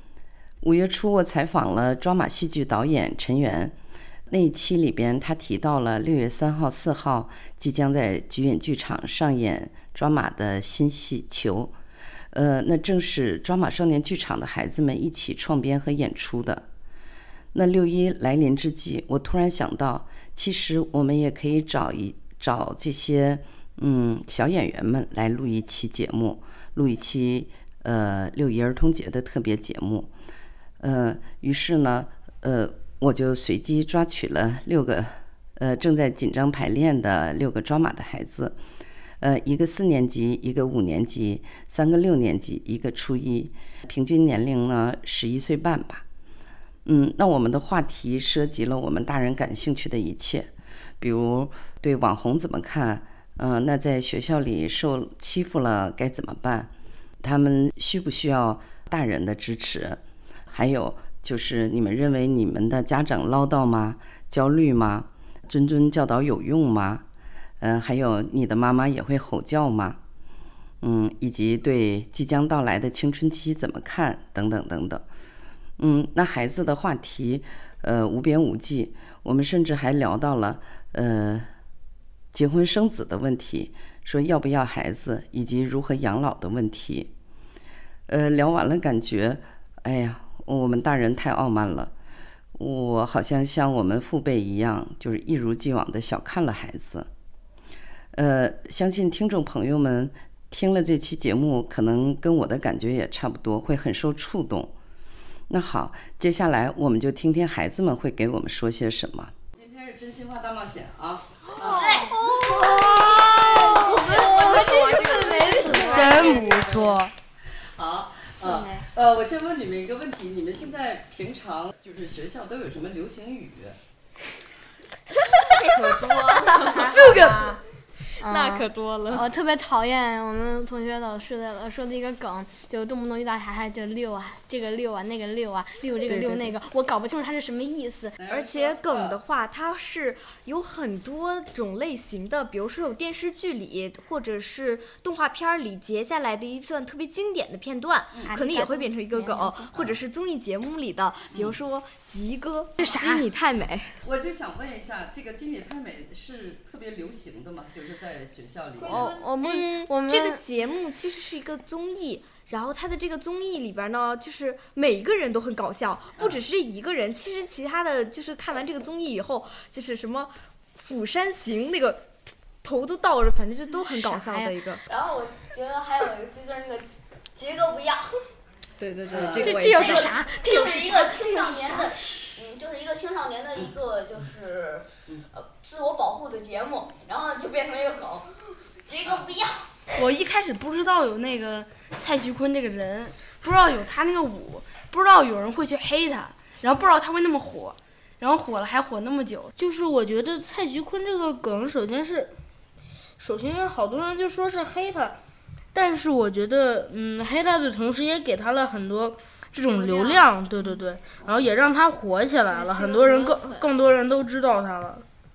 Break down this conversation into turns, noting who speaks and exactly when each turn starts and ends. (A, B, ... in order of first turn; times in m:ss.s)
0:00.6-0:03.8 A
0:04.3-0:11.7 A
0:12.3-0:16.7 A
0:17.5-0:30.1 A
0:30.8-0:38.6 A
0:39.2-0:46.0 A
0:46.8-0:50.5 A
0:51.0-1:07.0 A
1:07.6-1:10.0 A
1:10.8-1:15.0 A
1:15.8-1:21.5 A
1:22.3-1:27.1 A
1:28.1-1:31.9 A
1:32.6-1:37.1 A
1:38.1-1:44.7 A
1:45.5-1:51.9 A
1:51.6-1:56.5 B
1:51.6-1:56.5 C
1:55.8-1:57.1 D
1:56.6-1:56.9 A
1:57.7-2:03.8 A
1:58.4-1:58.9 C
2:05.5-2:07.6 B
2:06.4-2:07.4 C
2:06.7-2:07.0 E
2:08.2-2:09.2 B
2:08.2-2:18.2 C
2:16.1-2:16.4 B
2:18.2-2:19.2 A
2:18.3-2:33.9 E
2:28.2-2:29.7 C
2:32.8-2:33.2 C
2:34.0-2:39.1 A
2:38.8-2:39.3 B
2:38.9-2:54.8 E
2:38.9-2:40.4 C
2:53.8-2:54.6 C
2:54.8-2:58.2 B
2:58.8-3:09.7 B
2:59.1-2:59.8 A
2:59.3-3:02.0 C
3:10.0-3:19.5 F
3:19.6-3:22.3 D
3:23.2-3:25.2 D
3:25.7-3:35.1 D
3:29.7-3:30.9 C
3:31.2-3:31.5 A
3:32.5-3:33.7 C